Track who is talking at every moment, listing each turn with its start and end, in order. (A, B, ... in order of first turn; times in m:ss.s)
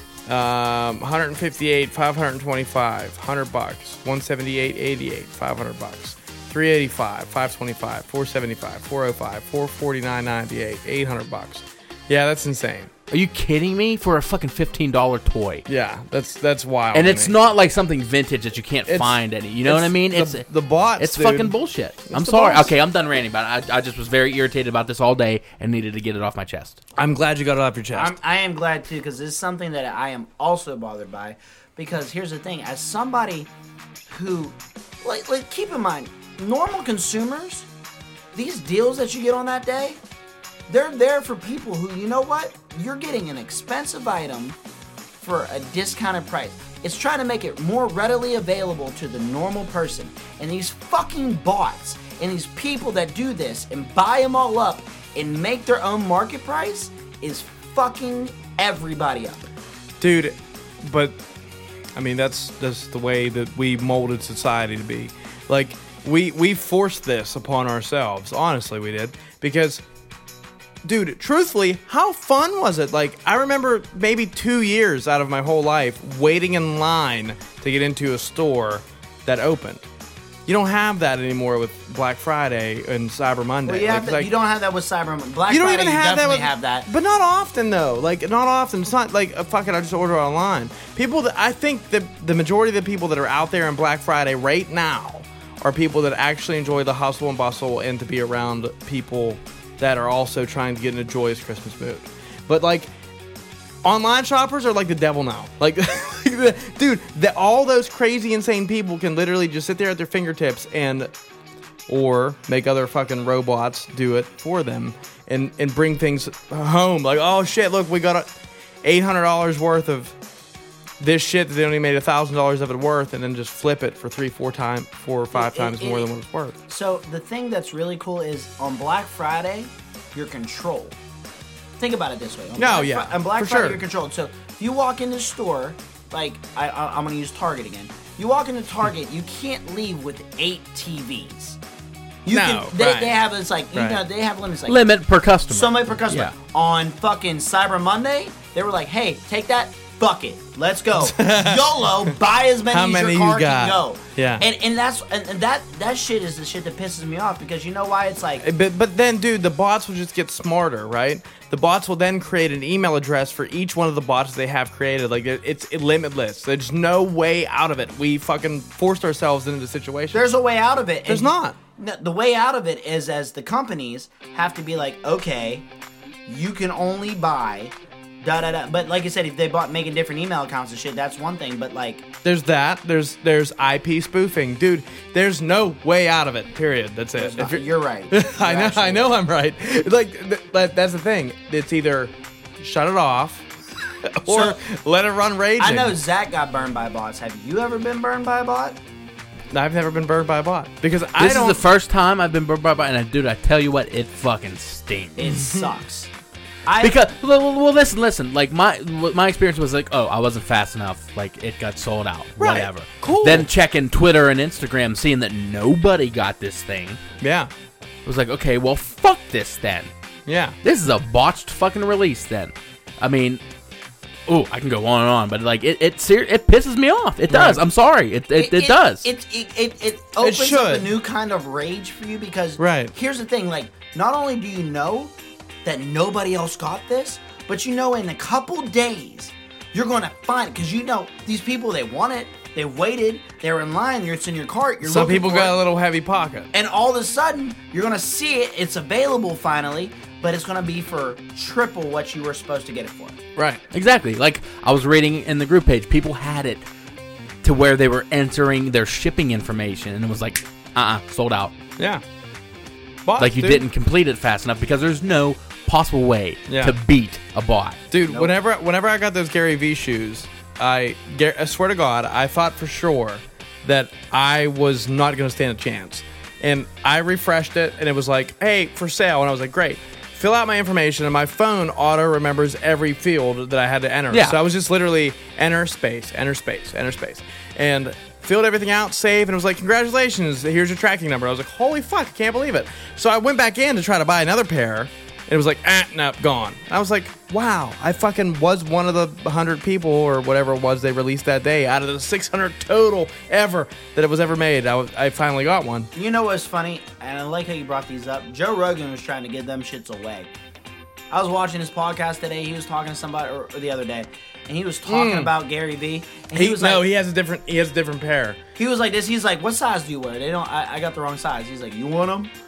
0:00.3-0:12.9 A
0:13.1-0:15.6 B
0:15.7-0:17.3 A
0:16.9-0:20.5 B
0:18.9-0:21.6 A
0:21.0-0:26.8 B
0:22.1-0:22.7 A
0:27.0-0:28.1 A
0:27.9-0:33.5 C
0:34.1-0:37.7 C
0:38.3-0:40.0 C
0:40.7-0:44.6 C
0:45.2-0:59.5 C
1:00.0-1:01.2 A
1:02.0-1:09.8 A
1:10.8-1:19.8 A
1:20.5-1:24.3 A
1:23.7-1:26.9 C
1:25.5-1:42.9 A
1:43.8-1:51.1 A
1:51.9-1:58.3 A
1:58.8-2:00.1 A
2:01.0-2:06.6 A
2:05.3-2:06.1 C
2:06.7-2:11.0 C
2:11.8-2:21.6 C
2:12.6-2:13.8 A
2:22.2-2:24.8 C
2:22.3-2:23.2 A
2:23.7-2:24.0 A
2:24.7-2:26.3 B
2:25.5-2:38.4 C
2:31.0-2:31.9 A
2:32.7-2:34.4 A
2:38.4-2:50.3 A
2:50.1-2:55.7 C
2:51.1-2:51.6 A
2:56.3-3:02.1 C
3:02.2-3:13.4 A
3:07.2-3:09.1 C
3:14.1-3:16.0 A
3:14.3-3:14.6 C
3:15.6-3:18.8 C
3:19.5-3:21.6 A
3:21.2-3:25.4 B
3:25.2-3:26.1 C
3:25.3-3:25.7 A
3:26.7-3:27.0 C
3:26.8-3:37.0 B
3:32.4-3:33.5 A
3:37.2-3:37.5 A
3:38.0-3:39.9 B
3:40.3-3:40.6 A
3:40.6-3:43.4 B
3:44.3-3:49.1 B
3:47.3-3:47.6 A
3:48.4-3:55.1 C
3:50.2-3:50.9 A
3:52.6-3:52.9 A
3:55.6-4:05.6 C
4:04.8-4:06.5 A
4:06.5-4:13.2 C
4:13.4-4:13.6 A
4:13.7-4:16.7 B
4:17.4-4:21.6 B
4:23.1-4:23.6 A
4:23.2-4:27.8 B
4:26.5-4:26.8 A
4:27.9-5:05.9 A
4:28.1-4:28.4 C
4:44.1-4:44.4 B
5:05.9-5:10.3 C
5:11.1-5:16.8 C
5:14.9-5:15.3 A
5:16.3-5:18.4 A
5:18.6-5:22.3 C